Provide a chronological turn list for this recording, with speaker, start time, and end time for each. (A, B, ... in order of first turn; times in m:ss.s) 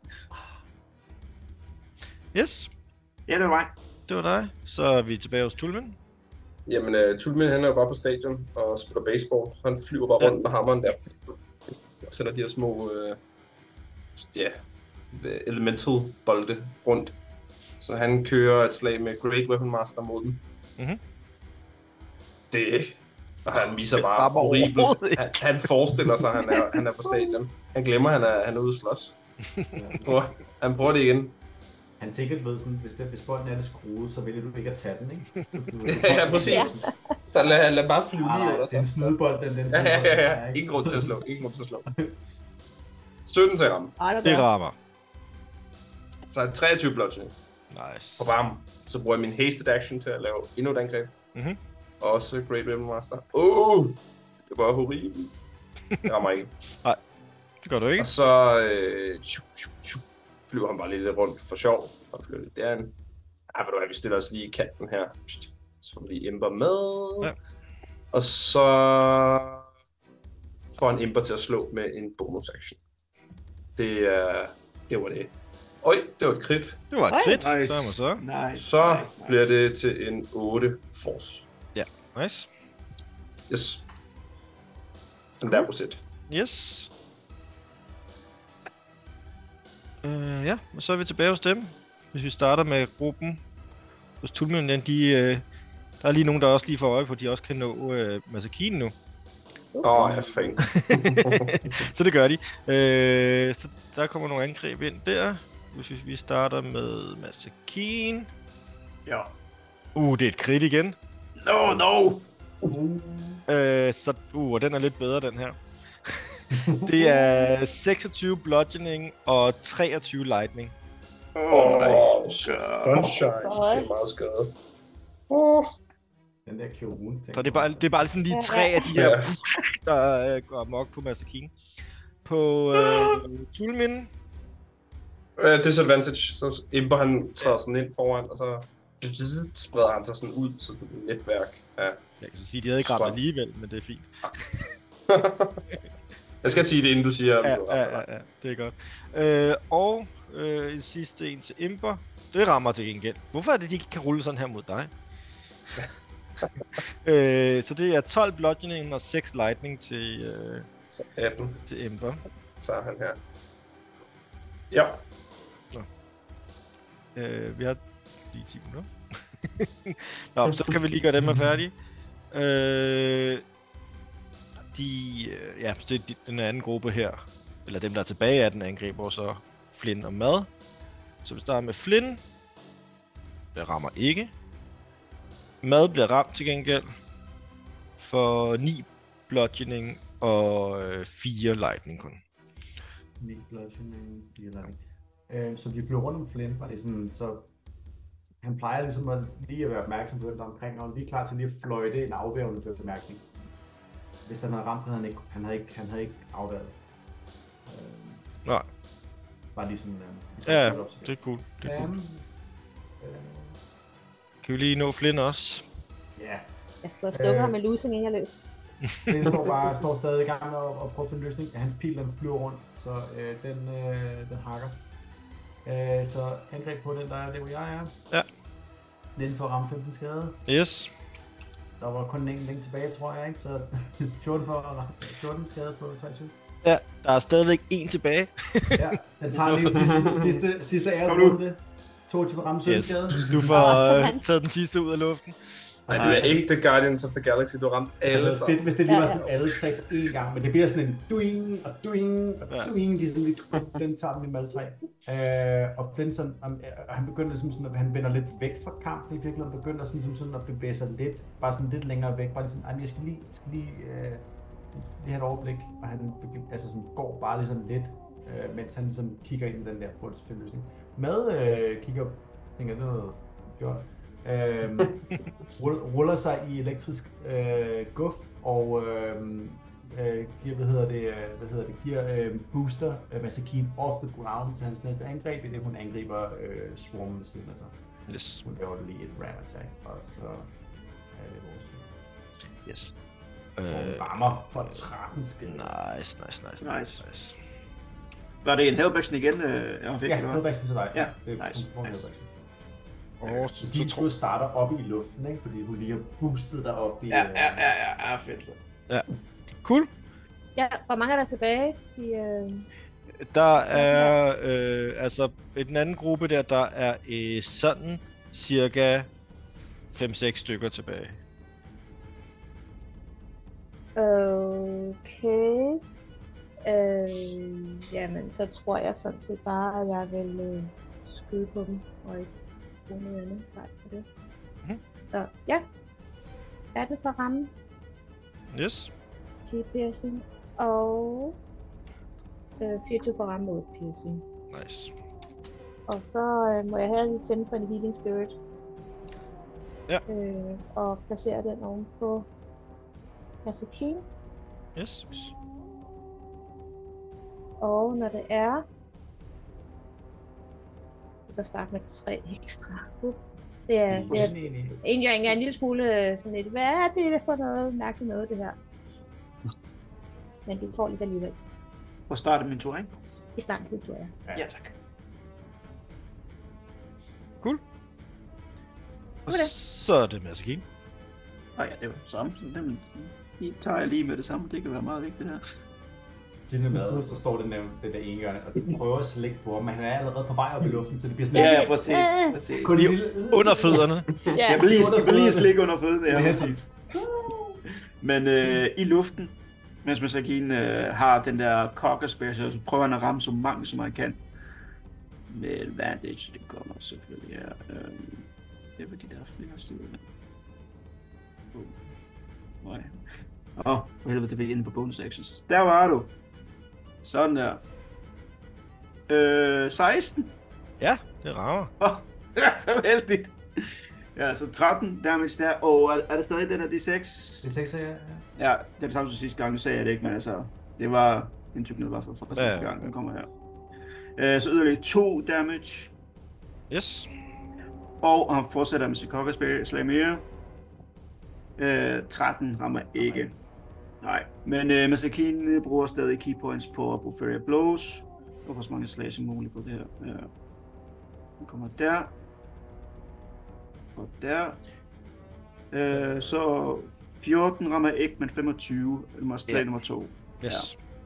0:00.3-0:00.6 A
0:02.3-0:02.7 B
0:03.3-0:03.7 C
0:04.1-0:06.0 B
0:06.7-0:11.1 D
0:12.0-0:13.2 D
0:14.2-0:14.6 D
0:15.1-0:17.1 D
0:17.8-0:20.4 D
0:22.5-0:29.2 D
0:23.9-0:26.6 B
0:29.7-0:30.2 A
0:30.0-0:31.3 D
0:32.0-0:36.9 A
0:35.8-0:39.1 D
0:36.3-0:36.9 E
0:38.1-0:41.2 A
0:39.7-0:41.8 D
0:43.2-0:43.9 D
0:44.0-0:44.4 E
0:44.2-0:44.7 B
0:46.3-0:47.3 D
0:47.7-0:48.3 B
0:48.2-0:51.1 D
0:52.0-0:55.4 D
0:56.0-0:56.5 D
0:57.6-0:58.1 B
0:58.0-1:02.9 D
1:03.5-1:07.3 D
1:08.1-1:09.6 D
1:10.7-1:12.8 D
1:13.8-1:15.3 D
1:15.8-1:16.8 D
1:16.9-1:18.2 B
1:17.1-1:17.4 E
1:17.3-1:19.5 C
1:18.5-1:21.4 D
1:21.7-1:22.5 B
1:23.5-1:23.8 D
1:25.4-1:26.0 D
1:26.3-1:26.9 B
1:30.0-1:33.4 B
1:34.2-1:35.4 B
1:36.0-1:38.9 B
1:39.7-1:40.5 E
1:39.8-1:41.9 D
1:40.7-1:48.3 B
1:49.0-1:49.3 C
1:49.9-1:51.0 B
1:51.4-1:52.2 C
1:52.6-1:53.4 A
1:53.5-2:00.7 B
1:56.5-1:56.9 A
2:01.4-2:03.2 C
2:01.5-2:04.6 D
2:03.4-2:03.9 E
2:05.3-2:05.7 D
2:06.4-2:08.0 A
2:07.3-2:11.5 B
2:08.3-2:09.0 E
2:08.9-2:09.3 D
2:12.2-2:14.1 B
2:15.4-2:22.0 D
2:22.2-2:24.7 B
2:22.8-2:23.2 D
2:25.1-2:25.6 D
2:26.4-2:28.0 D
2:27.4-2:34.9 B
2:36.8-2:40.7 B
2:40.9-2:41.6 D
2:41.6-2:42.2 B
2:42.6-2:43.2 D
2:44.7-2:45.0 D
2:47.1-2:51.7 B
2:52.3-2:53.4 B
2:54.6-3:00.5 B
3:01.2-3:02.2 B
3:03.5-3:04.3 B
3:05.6-3:06.9 B
3:08.0-3:12.2 B
3:13.2-3:17.5 A
3:18.4-3:23.3 A
3:24.2-3:26.8 A
3:27.6-3:28.3 A
3:29.5-3:32.3 A
3:30.4-3:31.9 B
3:33.0-3:33.6 A
3:34.4-3:35.6 B
3:36.2-3:36.5 A
3:36.8-3:38.3 E
3:37.1-3:37.6 A
3:39.1-3:44.8 A
3:45.6-3:47.9 A
3:49.2-3:50.4 A
3:50.5-3:50.9 B
3:51.8-3:56.3 A
3:56.6-3:58.9 B
3:58.7-4:03.9 A
3:59.6-4:00.3 D
4:01.1-4:01.4 C
4:02.6-4:05.4 B
4:03.5-4:04.2 E
4:05.9-4:06.5 A
4:05.9-4:08.8 D
4:06.0-4:06.4 C
4:08.1-4:35.0 A
4:08.8-4:09.2 E
4:35.5-4:47.8 A
4:48.1-4:48.4 B
4:48.4-4:50.5 A
4:51.1-4:51.9 A
4:52.6-4:53.0 B
4:53.6-4:54.3 B
4:53.7-4:55.7 A
4:55.4-4:57.4 B
4:56.6-4:57.0 C
4:58.4-5:02.0 C
5:00.0-5:02.3 A
5:03.2-5:04.1 B
5:03.2-5:07.7 A
5:07.1-5:08.6 C
5:09.6-5:09.9 B
5:10.6-5:12.6 E
5:13.2-5:19.1 B
5:13.6-5:14.2 E
5:19.9-5:21.2 B
5:24.0-5:25.8 E
5:26.6-5:32.3 E
5:32.9-5:34.0 E
5:35.0-5:35.6 E
5:36.7-5:37.5 E
5:38.5-5:38.9 B
5:39.4-5:41.4 E
5:42.6-5:44.2 E
5:44.5-5:44.9 B
5:45.9-5:48.3 E
5:50.1-5:52.3 E
5:53.4-5:54.0 E
5:54.8-5:55.0 B
5:57.6-5:58.6 E
6:01.3-6:08.6 E
6:03.9-6:04.8 A
6:10.4-6:11.4 E
6:12.1-6:12.9 C
6:13.4-6:14.2 E
6:14.3-6:14.7 C
6:19.3-6:19.5 E
6:19.3-6:20.6 B
6:21.6-6:25.4 C
6:26.5-6:31.8 A
6:31.3-6:32.4 E
6:31.3-6:32.9 C
6:32.6-6:37.6 A
6:32.7-6:34.2 B
6:34.3-6:34.7 E
6:34.4-6:36.6 C
6:38.0-6:44.2 C
6:45.3-6:50.0 C
6:51.5-6:51.8 C
6:52.6-6:52.9 C
6:53.6-6:56.1 C
6:57.0-6:57.6 C
6:59.1-7:00.3 C
7:00.8-7:01.7 B
7:01.8-7:07.5 C
7:07.4-7:08.3 A
7:08.4-7:13.3 C
7:12.3-7:12.9 B
7:14.2-7:15.9 C
7:16.7-7:17.1 B
7:18.0-7:20.2 C
7:21.6-7:23.3 C
7:24.0-7:30.3 C
7:31.4-7:32.1 C
7:33.9-7:34.6 C
7:35.7-7:40.7 C
7:40.4-7:40.8 B